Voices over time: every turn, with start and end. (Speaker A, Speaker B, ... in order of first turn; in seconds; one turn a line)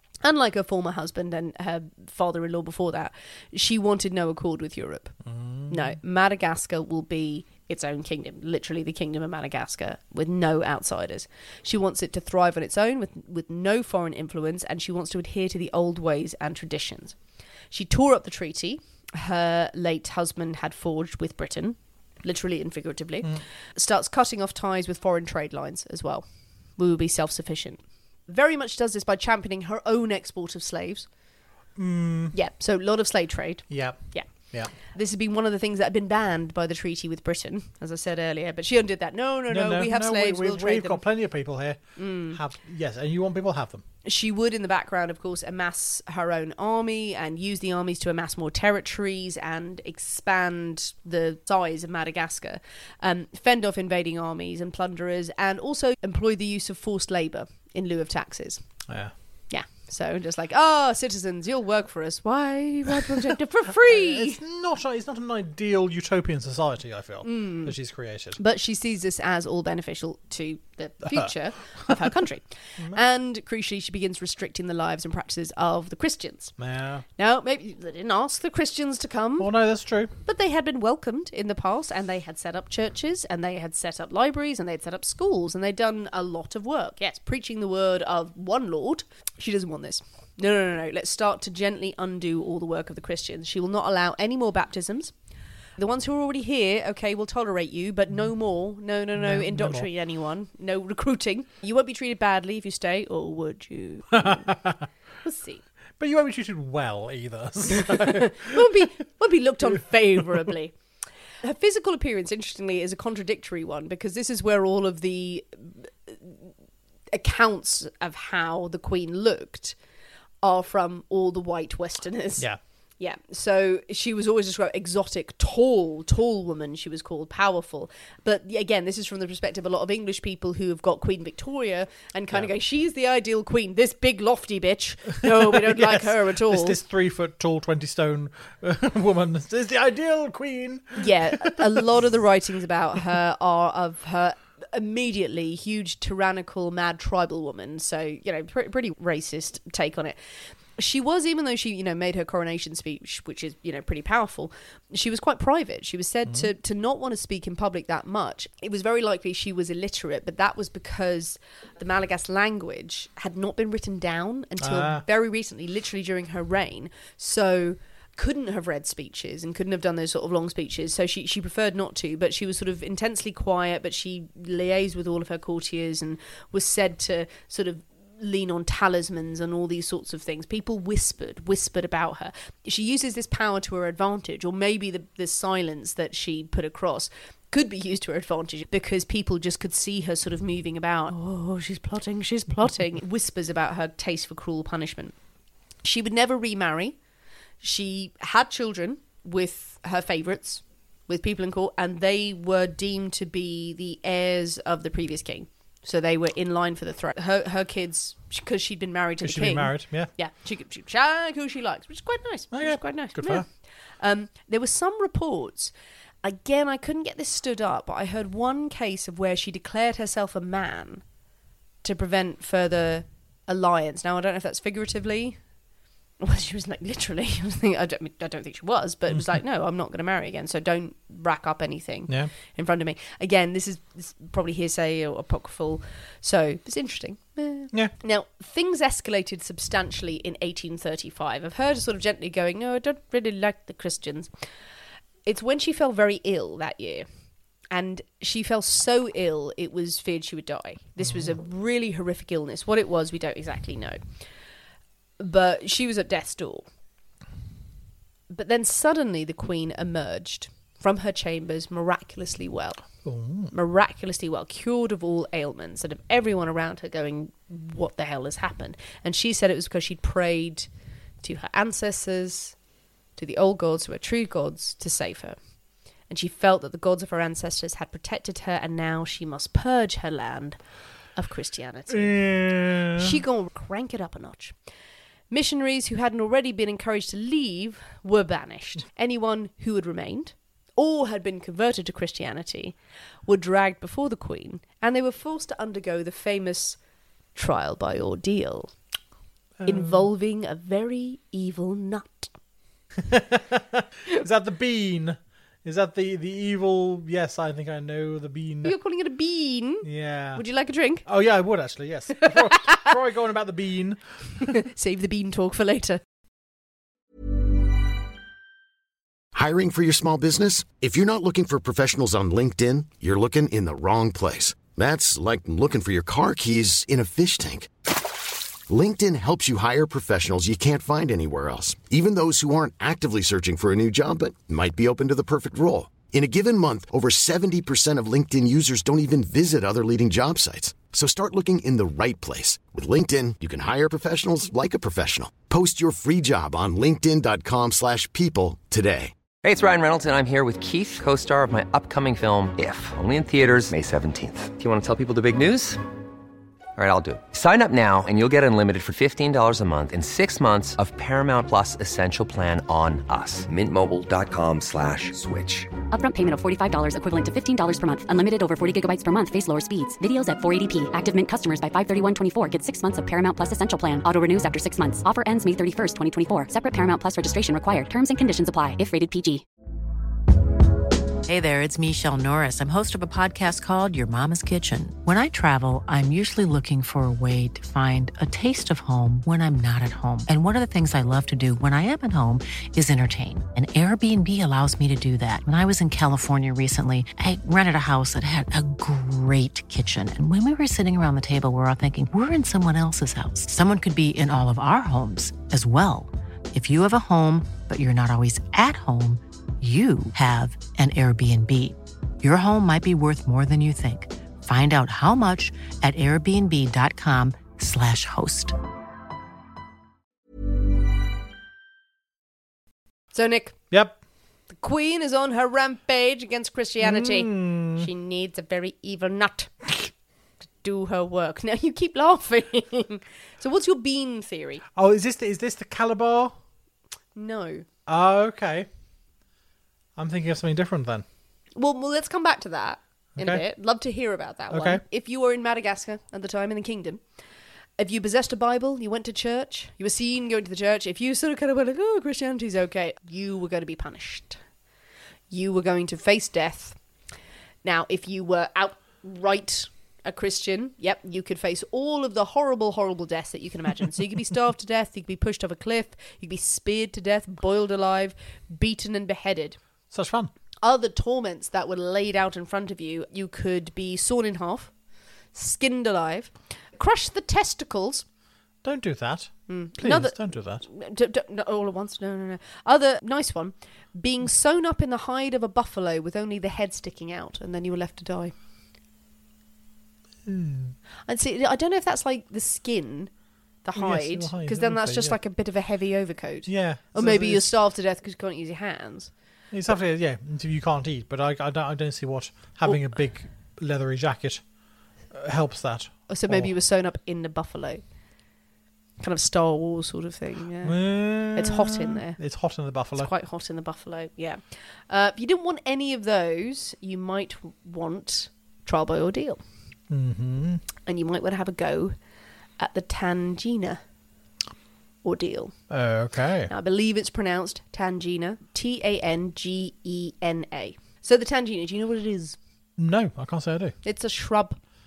Speaker A: 0.2-5.2
Speaker B: 5.3-6.0
Speaker A: 5.7-17.2
Speaker A: 17.7-26.2
Speaker A: 26.8-31.1
Speaker B: 31.8-32.4
Speaker A: 32.3-41.0
Speaker B: 33.7-34.7
Speaker B: 39.5-43.8
Speaker A: 42.0-42.4
Speaker A: 44.0-58.6
Speaker B: 58.9-59.1
Speaker A: 59.5-64.4
Speaker B: 63.8-68.4
Speaker A: 67.2-67.7
Speaker A: 68.4-76.5
Speaker B: 76.6-77.0
Speaker A: 77.2-79.5
Speaker B: 79.4-80.1
Speaker A: 80.2-95.1
Speaker A: 95.8-104.5
Speaker B: 99.2-99.9
Speaker B: 104.2-104.8
Speaker A: 105.2-105.6
Speaker B: 106.0-108.9
Speaker A: 107.7-110.7
Speaker A: 111.4-116.5
Speaker A: 117.1-119.8
Speaker A: 120.4-122.5
Speaker A: 123.0-136.8
Speaker B: 135.2-141.8
Speaker A: 141.0-150.2
Speaker A: 150.8-195.1
Speaker B: 164.6-165.0
Speaker A: 195.8-197.0
Speaker A: 197.6-213.4
Speaker B: 209.2-210.1
Speaker B: 212.5-213.4
Speaker A: 214.0-215.7
Speaker A: 216.2-221.0
Speaker A: 221.8-225.4
Speaker A: 226.2-244.3
Speaker A: 245.3-247.1
Speaker A: 247.7-254.0
Speaker B: 251.1-251.3
Speaker A: 255.2-256.7
Speaker A: 258.3-262.8
Speaker B: 263.1-263.5
Speaker A: 263.5-270.7
Speaker A: 271.2-272.6
Speaker A: 273.2-275.4
Speaker A: 276.1-280.6
Speaker A: 281.1-284.6
Speaker B: 281.9-283.2
Speaker A: 285.3-292.7
Speaker A: 293.3-296.8
Speaker A: 297.4-298.7
Speaker B: 299.6-300.1
Speaker A: 299.7-302.3
Speaker B: 303.0-308.7
Speaker A: 308.6-311.1
Speaker B: 309.8-310.4
Speaker B: 311.1-314.5
Speaker A: 312.2-312.9
Speaker A: 314.5-316.0
Speaker C: 319.3-328.1
Speaker C: 328.7-349.1
Speaker D: 349.4-355.8
Speaker D: 356.8-365.7
Speaker E: 365.9-379.4
Speaker F: 381.3-418.6
Speaker A: 423.1-423.6
Speaker B: 423.7-424.0
Speaker A: 424.5-429.5
Speaker B: 426.8-427.9
Speaker A: 430.6-434.6
Speaker B: 434.7-436.4
Speaker A: 437.1-437.7
Speaker B: 437.9-438.7
Speaker B: 439.9-441.1
Speaker A: 441.6-447.0
Speaker B: 443.2-443.4
Speaker B: 444.5-444.8
Speaker A: 447.8-454.4
Speaker A: 455.3-456.8
Speaker A: 457.6-469.6
Speaker B: 469.9-470.3
Speaker A: 470.6-474.7
Speaker A: 475.3-478.1
Speaker B: 478.6-480.6
Speaker A: 479.5-488.3
Speaker B: 490.2-490.8
Speaker A: 491.1-493.1
Speaker A: 493.6-499.1
Speaker B: 493.8-495.2
Speaker B: 496.5-497.5
Speaker B: 499.5-504.4
Speaker B: 505.1-506.5
Speaker A: 506.1-507.8
Speaker A: 509.0-512.2
Speaker B: 510.6-513.1
Speaker A: 513.0-519.4
Speaker B: 519.9-520.6
Speaker A: 520.9-522.0
Speaker A: 522.6-523.8
Speaker A: 525.0-525.5
Speaker B: 525.7-526.5
Speaker A: 526.5-532.4
Speaker B: 532.8-533.8
Speaker A: 533.8-534.6